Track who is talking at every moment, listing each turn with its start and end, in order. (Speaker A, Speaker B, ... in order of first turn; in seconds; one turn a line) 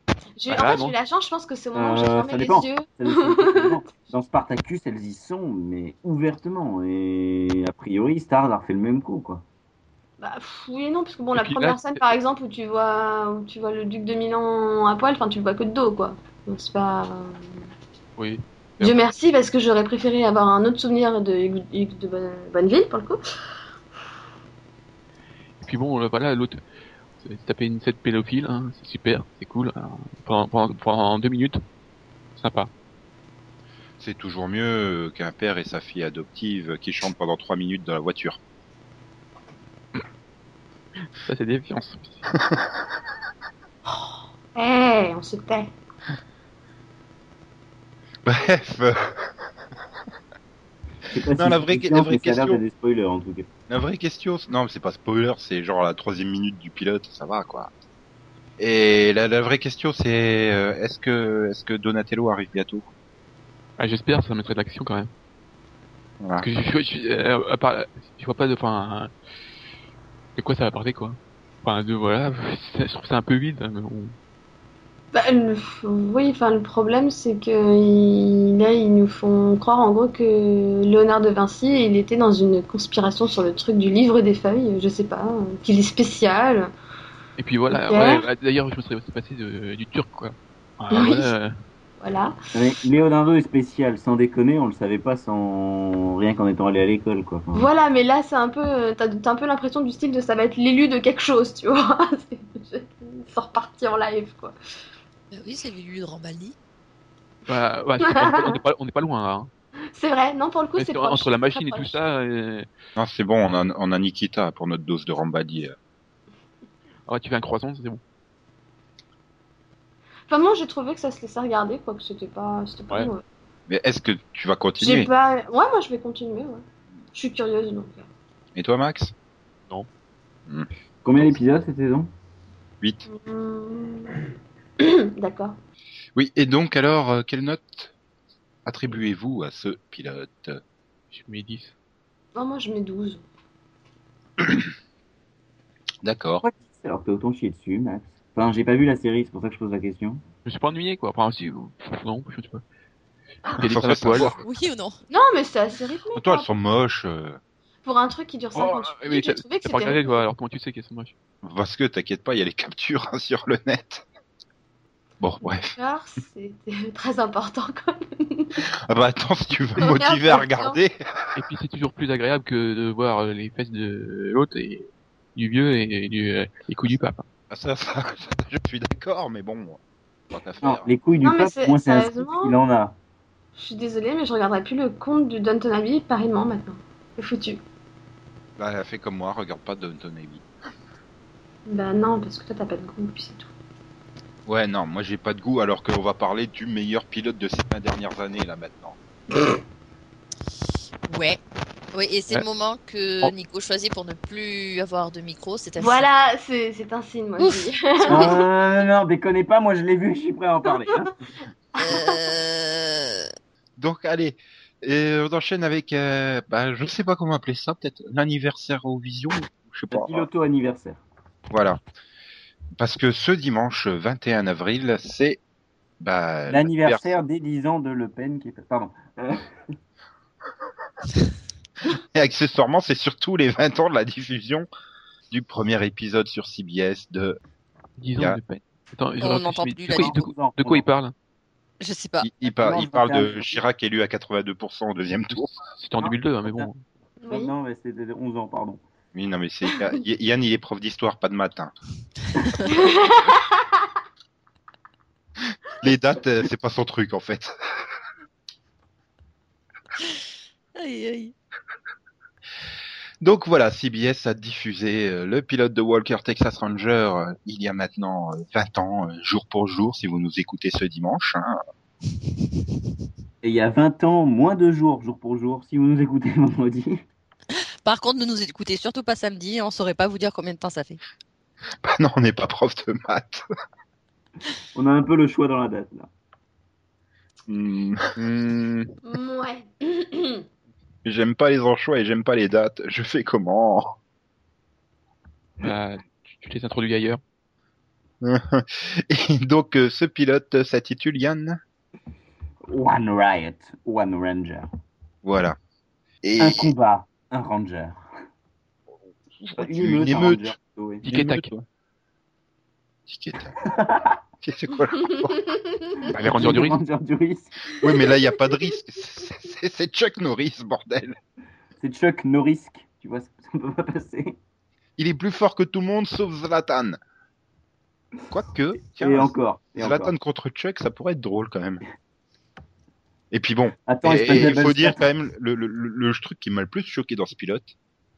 Speaker A: 0.4-3.9
Speaker B: 0.5-1.0
Speaker C: 1.8-9.4
Speaker A: 10.2-17.6
Speaker B: 11.3-12.0
Speaker B: 18.2-19.1
Speaker A: 18.8-23.2
Speaker B: 25.6-26.6
Speaker B: 27.2-31.6
Speaker B: 32.4-32.7
Speaker D: 34.0-38.4
Speaker B: 41.2-42.3
Speaker A: 43.9-45.7
Speaker D: 48.2-49.3
Speaker C: 51.0-53.5
Speaker D: 51.3-52.6
Speaker D: 53.7-57.7
Speaker D: 58.6-62.9
Speaker B: 63.8-65.1
Speaker D: 66.2-66.5
Speaker B: 66.4-69.1
Speaker B: 70.4-74.2
Speaker A: 75.1-86.7
Speaker B: 87.4-91.5
Speaker A: 87.7-88.3
Speaker A: 90.9-91.3
Speaker A: 92.0-92.3
Speaker C: 92.5-97.7
Speaker A: 97.5-104.5
Speaker E: 105.3-106.5
Speaker B: 107.5-109.5
Speaker A: 108.0-108.6
Speaker A: 109.9-112.0
Speaker B: 110.8-112.7
Speaker D: 113.0-115.8
Speaker B: 117.1-118.0
Speaker A: 120.3-123.2
Speaker D: 123.7-125.1
Speaker A: 124.8-126.6
Speaker A: 127.1-128.1
Speaker D: 128.6-129.1
Speaker C: 131.0-132.1
Speaker A: 133.1-134.2
Speaker A: 134.8-135.6
Speaker D: 136.2-137.9
Speaker D: 138.7-140.6
Speaker B: 141.1-141.8
Speaker A: 142.3-143.2
Speaker D: 144.4-144.7
Speaker D: 146.0-146.4
Speaker C: 146.4-150.2
Speaker B: 150.4-152.6
Speaker B: 153.5-154.4
Speaker D: 153.6-154.4
Speaker E: 154.4-155.0
Speaker A: 155.1-156.5
Speaker D: 156.2-157.4
Speaker A: 157.8-160.2
Speaker B: 158.6-161.1
Speaker D: 161.4-164.1
Speaker D: 165.2-165.8
Speaker A: 165.7-168.6
Speaker D: 168.8-170.9
Speaker A: 169.8-170.8
Speaker B: 171.3-177.2
Speaker D: 177.5-179.8
Speaker D: 180.3-180.9
Speaker C: 180.6-182.9
Speaker A: 181.2-182.5
Speaker A: 183.6-187.6
Speaker D: 188.6-190.4
Speaker A: 191.7-193.5
Speaker D: 194.5-199.0
Speaker E: 201.1-201.4
Speaker E: 201.9-206.1
Speaker A: 205.8-208.4
Speaker E: 207.4-208.3
Speaker C: 208.1-211.2
Speaker E: 211.8-213.3
Speaker A: 211.8-212.2
Speaker D: 213.8-220.3
Speaker C: 219.9-221.0
Speaker D: 221.5-221.8
Speaker D: 222.8-225.4
Speaker D: 226.0-227.2
Speaker C: 226.5-229.7
Speaker D: 231.9-234.7
Speaker D: 235.3-237.4
Speaker B: 238.0-241.1
Speaker E: 239.2-240.2
Speaker C: 239.9-240.9
Speaker E: 241.8-242.3
Speaker D: 242.2-245.6
Speaker C: 242.5-243.6
Speaker B: 245.8-246.8
Speaker C: 246.0-246.7
Speaker A: 247.2-247.5
Speaker C: 247.3-248.8
Speaker D: 249.1-251.7
Speaker A: 252.7-253.6
Speaker D: 255.7-257.5
Speaker E: 260.8-261.3
Speaker D: 263.2-271.6
Speaker C: 273.4-277.0
Speaker E: 277.8-281.0
Speaker D: 281.8-283.4
Speaker C: 284.8-286.1
Speaker D: 287.5-288.1
Speaker B: 288.2-288.9
Speaker A: 289.1-290.4
Speaker D: 291.0-294.0
Speaker B: 295.6-297.2
Speaker D: 298.2-301.6
Speaker C: 302.7-304.7
Speaker D: 305.2-305.6
Speaker D: 306.2-306.7
Speaker C: 306.4-308.0
Speaker D: 309.4-311.6
Speaker C: 309.5-311.1
Speaker B: 311.1-311.5
Speaker D: 313.1-313.6
Speaker C: 313.6-314.2
Speaker D: 314.4-315.5
Speaker B: 316.1-316.8
Speaker C: 316.1-317.8
Speaker D: 317.8-321.2
Speaker C: 321.8-324.4
Speaker D: 325.0-327.0
Speaker D: 328.3-331.8
Speaker C: 329.0-330.1
Speaker D: 333.3-337.7
Speaker C: 333.9-335.1